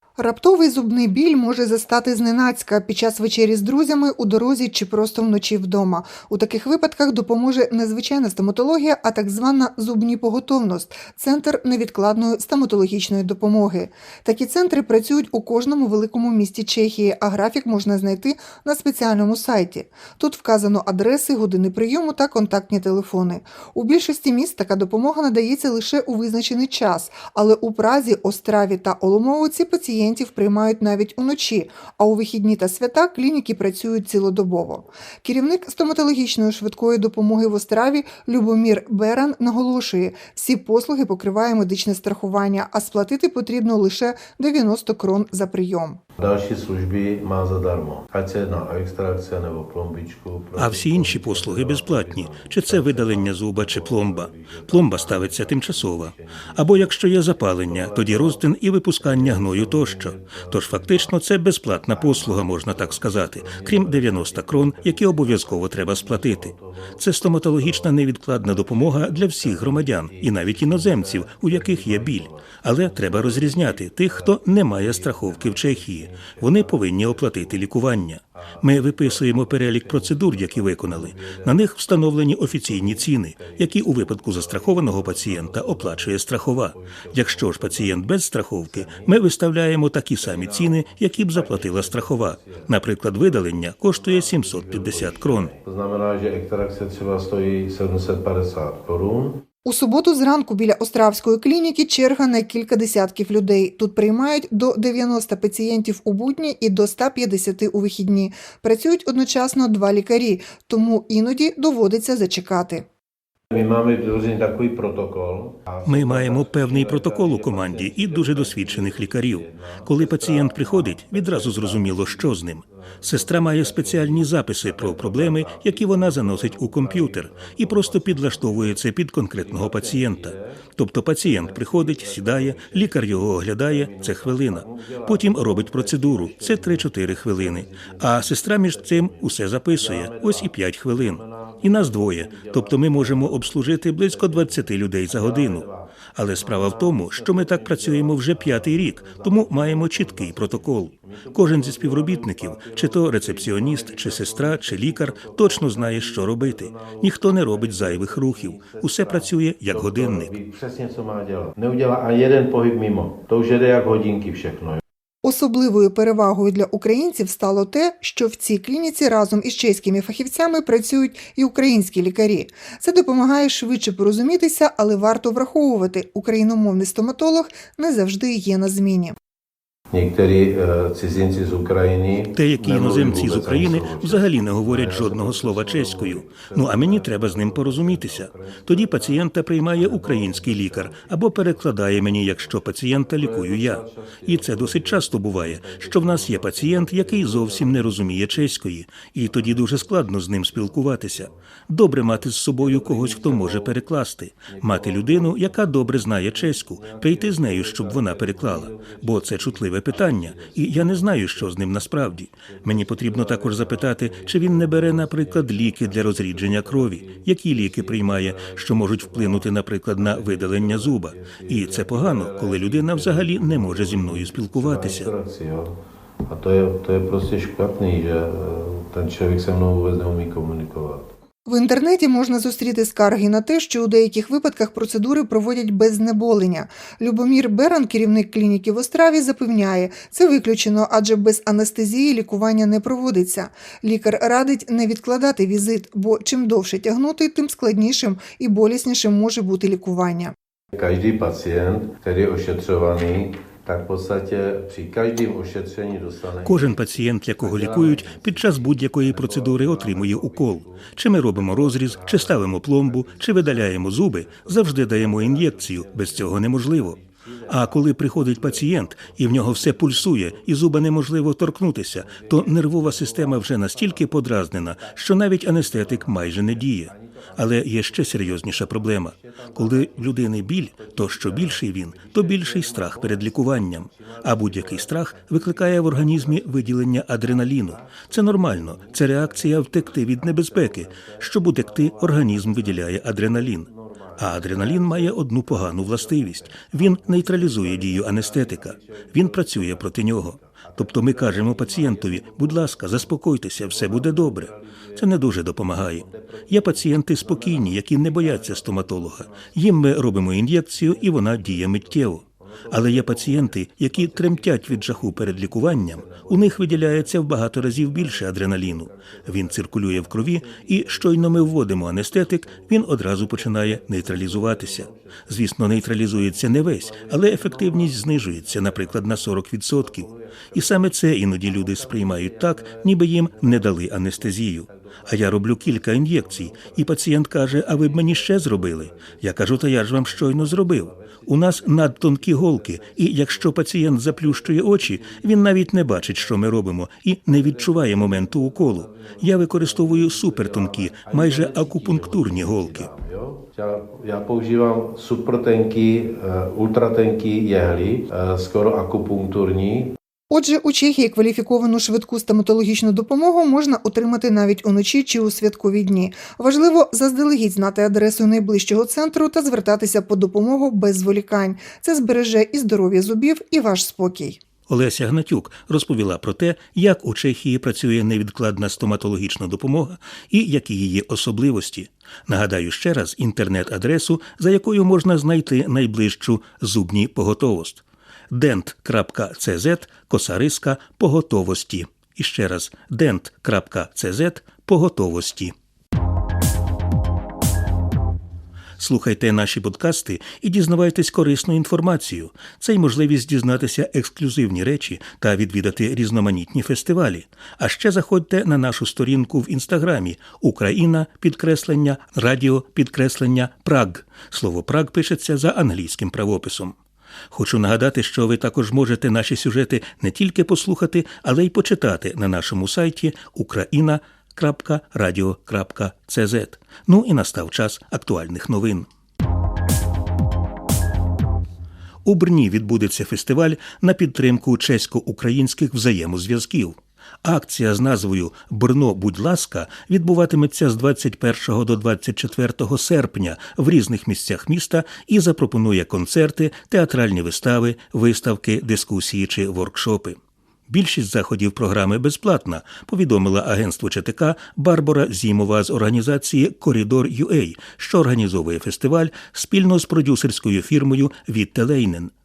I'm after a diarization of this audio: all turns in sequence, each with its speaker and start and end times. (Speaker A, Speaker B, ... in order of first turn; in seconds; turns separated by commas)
Speaker A: 0.2-46.0, Speaker B: 46.2-58.4, Speaker C: 50.5-95.5, Speaker B: 59.0-61.1, Speaker B: 61.8-67.0, Speaker B: 67.5-77.7, Speaker B: 78.3-81.6, Speaker B: 82.5-88.1, Speaker B: 88.6-89.2, Speaker B: 90.2-99.4, Speaker A: 99.6-112.9, Speaker B: 113.5-128.8, Speaker C: 115.8-160.3, Speaker B: 129.4-130.6, Speaker B: 131.2-164.8, Speaker A: 165.2-179.2, Speaker B: 179.9-198.6, Speaker C: 182.3-225.1, Speaker B: 199.2-201.3, Speaker B: 202.0-203.8, Speaker B: 204.5-231.1, Speaker A: 231.4-250.3, Speaker B: 250.7-270.8, Speaker C: 256.4-352.9, Speaker B: 271.9-346.5, Speaker B: 347.3-359.9, Speaker A: 360.3-374.4, Speaker C: 374.7-395.5, Speaker C: 398.8-416.8, Speaker C: 417.3-428.9, Speaker C: 432.0-450.1, Speaker C: 450.7-462.1